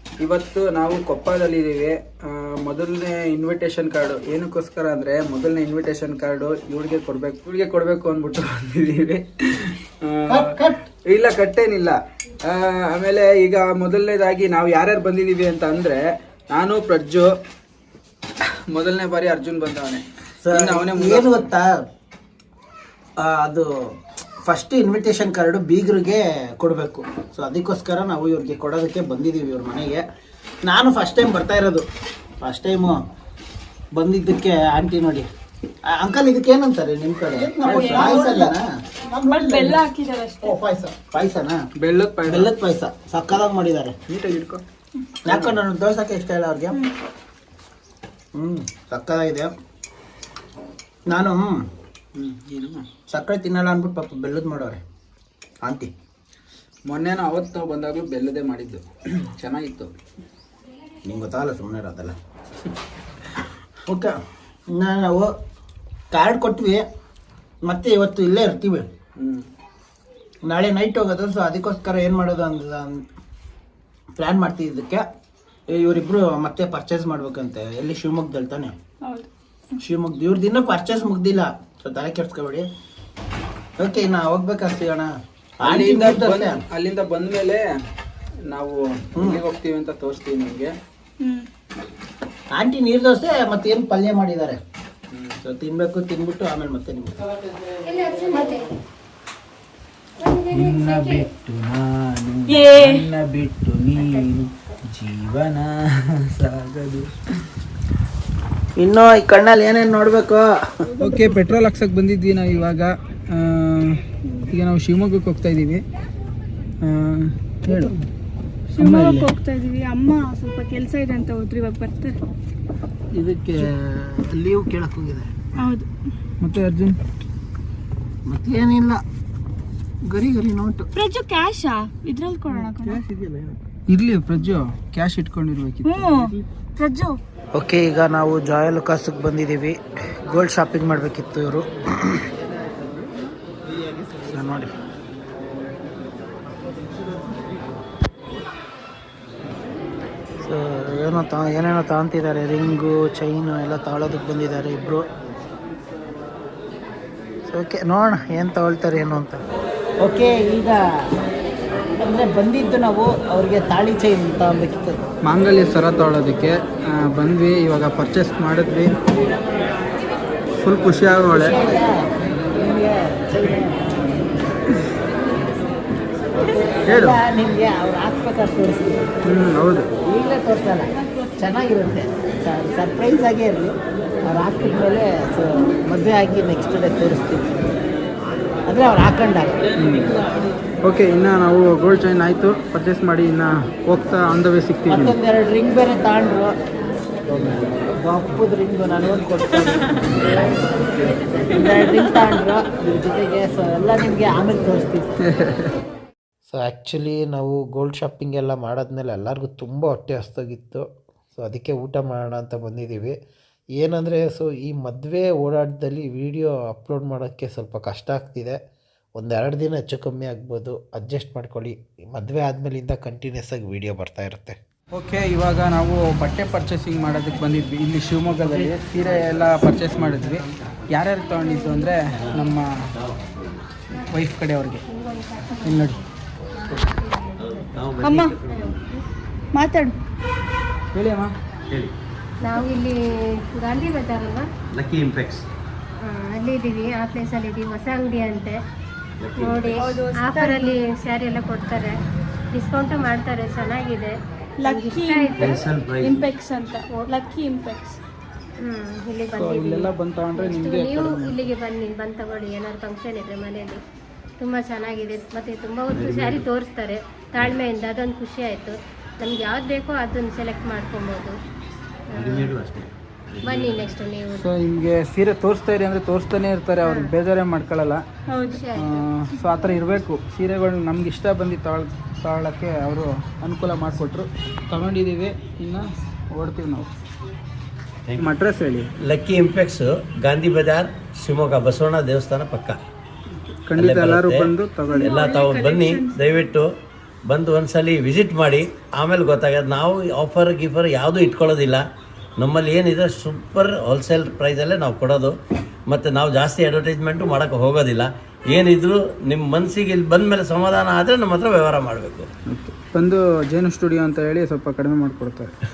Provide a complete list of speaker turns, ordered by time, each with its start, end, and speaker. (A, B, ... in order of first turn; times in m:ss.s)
0:00.2-0:10.5 A
0:10.3-0:10.8 B
0:11.1-0:17.3 A
0:18.7-0:21.5 A
0:20.4-0:21.7 B
0:23.2-0:23.7 B
0:24.5-0:30.0 B
0:30.6-0:31.8 B
0:32.4-0:33.0 B
0:34.0-0:35.3 B
0:35.9-0:39.8 B
0:37.6-0:38.4 A
0:37.7-0:38.6 C
0:39.1-0:40.6 C
0:40.4-0:41.6 B
0:41.8-0:42.5 A
0:42.3-0:44.0 B
0:44.1-0:44.6 A
0:45.3-0:46.8 B
0:45.3-0:45.6 A
0:48.4-0:49.5 B
0:51.1-0:51.6 B
0:52.2-0:52.9 A
0:53.1-0:54.8 B
0:55.6-0:55.9 B
0:56.9-0:59.9 A
1:01.0-1:02.2 B
1:03.9-1:04.2 B
1:04.7-1:05.3 B
1:06.1-1:06.8 B
1:07.7-1:08.9 B
1:09.2-1:09.4 A
1:10.4-1:13.0 B
1:14.2-1:15.0 B
1:15.7-1:18.7 B
1:19.0-1:19.8 C
1:19.8-1:22.7 B
1:23.8-1:25.1 B
1:25.6-1:26.6 B
1:25.6-1:27.6 A
1:28.5-1:30.7 A
1:31.2-1:31.5 C
1:32.5-1:34.6 B
1:35.1-1:35.4 A
1:35.4-1:37.4 B
1:37.8-1:38.7 D
1:38.3-1:38.6 C
1:40.2-1:41.3 D
1:40.5-1:47.1 A
1:42.5-1:43.1 C
1:44.0-1:44.2 D
1:48.8-1:50.5 B
1:50.9-1:51.6 C
1:51.0-1:54.0 A
1:54.2-1:54.5 C
1:54.5-1:55.8 A
1:56.8-1:57.8 A
1:57.7-1:58.0 B
1:58.8-2:02.2 C
1:58.8-1:59.3 A
2:03.1-2:03.7 A
2:03.6-2:05.3 B
2:05.6-2:05.9 C
2:06.4-2:07.0 A
2:08.3-2:09.0 B
2:10.1-2:10.9 B
2:11.0-2:13.0 C
2:12.5-2:13.1 A
2:13.9-2:16.4 A
2:15.8-2:17.2 C
2:17.6-2:23.1 B
2:23.7-2:24.7 B
2:30.4-2:35.0 B
2:37.5-2:39.4 B
2:40.0-2:40.8 B
2:42.0-2:45.0 B
2:45.2-2:48.9 A
2:50.6-2:51.6 A
2:51.3-2:53.8 B
2:56.3-2:59.1 B
2:56.9-2:57.2 A
2:59.3-2:59.9 A
3:00.0-3:03.7 B
3:01.1-3:01.4 C
3:04.2-3:07.6 B
3:08.7-3:09.6 B
3:09.8-3:10.2 A
3:10.8-3:15.2 A
3:14.9-3:16.5 B
3:17.3-3:25.1 B
3:21.4-3:21.9 C
3:25.3-3:25.7 A
3:26.5-3:33.2 B
3:33.8-3:38.6 B
3:39.2-3:44.6 B
3:44.9-3:52.7 A
3:52.2-3:52.4 E
3:53.1-3:53.6 E
3:54.1-3:54.8 A
3:54.9-3:57.9 D
3:57.4-3:58.8 E
3:58.0-3:58.6 C
3:59.6-4:00.0 C
4:00.9-4:01.3 A
4:02.4-4:04.5 D
4:04.7-4:05.5 E
4:06.0-4:08.6 D
4:09.2-4:10.0 E
4:09.4-4:12.0 D
4:09.8-4:10.8 C
4:12.5-4:15.5 D
4:14.6-4:18.0 C
4:15.4-4:16.3 E
4:18.6-4:23.8 D
4:19.3-4:21.3 A
4:24.4-4:31.4 D
4:25.9-4:26.5 E
4:32.1-4:32.6 D
4:32.1-4:33.9 E
4:33.4-4:34.5 D
4:34.4-4:38.0 A
4:36.8-4:37.1 D
4:38.3-4:38.7 C
4:38.4-4:39.0 D
4:38.8-4:46.9 A
4:48.2-4:48.9 A
4:49.0-4:52.8 E
4:53.7-4:55.2 A
4:53.8-4:56.7 E
4:54.9-4:56.5 C
4:57.3-5:01.8 E
5:02.4-5:05.4 E
5:05.9-5:12.3 E
5:12.5-5:15.5 A